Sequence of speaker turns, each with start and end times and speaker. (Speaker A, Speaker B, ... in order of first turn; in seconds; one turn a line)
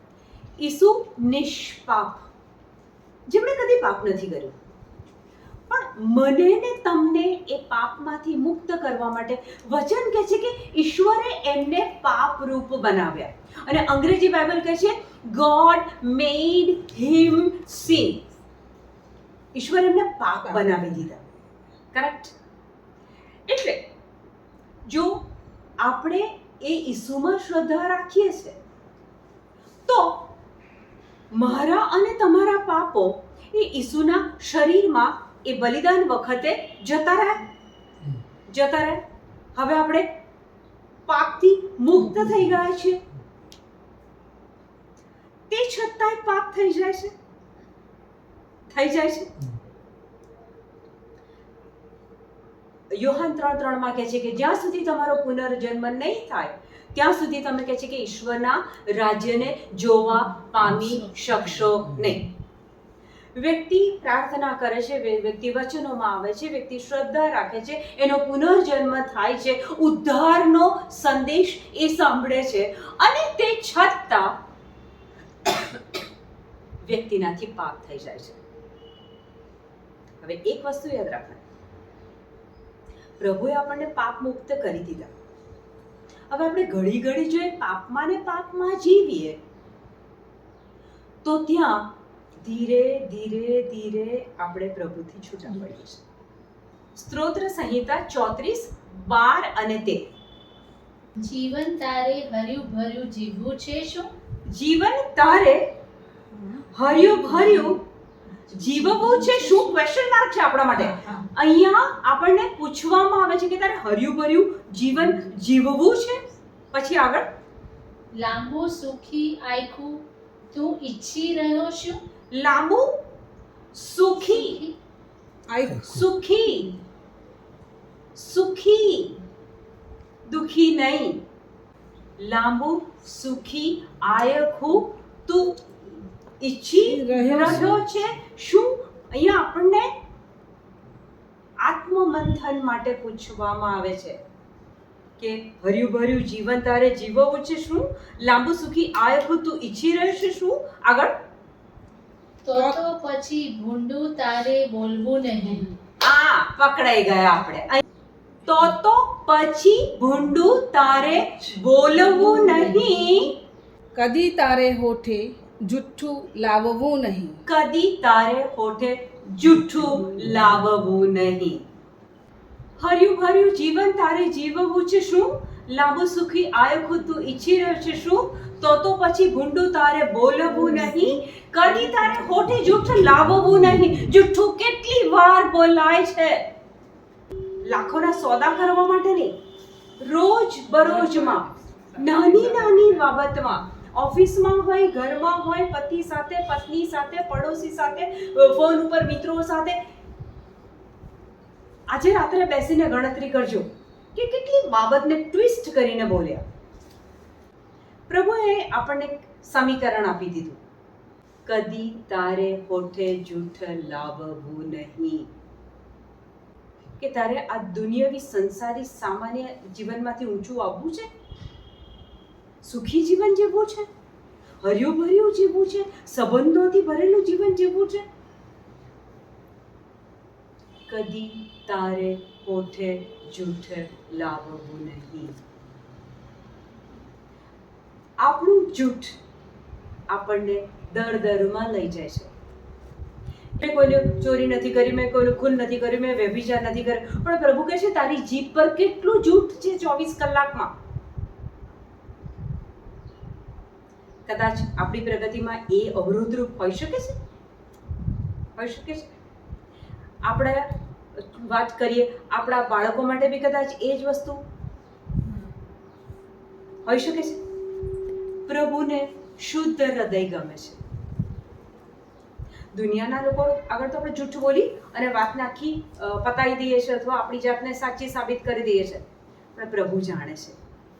Speaker A: 0.6-2.3
Speaker A: 3.3-4.5
Speaker A: 5.7-18.2
Speaker A: 19.5-21.2
Speaker B: 20.5-20.8
Speaker A: 21.9-22.3
Speaker A: 23.5-23.8
Speaker A: 24.8-25.2
Speaker A: 25.8-28.6
Speaker A: 29.9-30.2
Speaker A: 31.3-37.5
Speaker A: 38.5-39.0
Speaker A: 39.5-40.1
Speaker A: 41.1-43.0
Speaker A: 45.5-47.1
Speaker A: 48.7-49.3
Speaker A: 52.9-62.3
Speaker A: 63.3-74.3
Speaker A: 76.8-78.4
Speaker A: 80.2-81.4
Speaker A: 83.2-85.1
Speaker A: 86.3-89.4
Speaker A: 91.2-96.0
Speaker A: 96.9-100.0
Speaker C: 101.2-104.1
Speaker A: 104.5-105.6
Speaker A: 106.7-107.8
Speaker A: 108.5-116.2
Speaker A: 116.7-117.3
Speaker C: 118.1-122.0
Speaker A: 122.3-123.0
Speaker A: 123.7-124.6
Speaker C: 124.3-124.8
Speaker B: 125.5-126.0
Speaker A: 125.8-126.8
Speaker A: 128.1-129.2
Speaker A: 130.2-131.2
Speaker A: 132.2-135.6
Speaker A: 136.4-139.9
Speaker B: 136.8-137.8
Speaker A: 141.6-144.2
Speaker A: 145.2-151.1
Speaker C: 152.4-155.7
Speaker B: 152.5-152.8
Speaker A: 156.0-157.8
Speaker A: 158.4-163.4
Speaker C: 162.2-162.9
Speaker B: 163.9-167.4
Speaker A: 167.4-171.6
Speaker A: 172.8-186.5
Speaker A: 187.6-189.3
Speaker A: 190.0-199.8
Speaker B: 190.8-192.9
Speaker A: 201.9-206.4
Speaker A: 208.1-210.6
Speaker A: 211.4-215.3
Speaker A: 217.0-221.1
Speaker A: 222.6-223.9
Speaker A: 224.6-228.1
Speaker A: 230.9-235.4
Speaker A: 238.2-239.2
Speaker A: 240.1-242.3
Speaker A: 243.5-250.7
Speaker A: 254.2-257.2
Speaker A: 258.6-259.1
Speaker A: 260.2-264.4
Speaker A: 266.9-267.4
Speaker A: 268.4-270.8
Speaker A: 272.7-280.6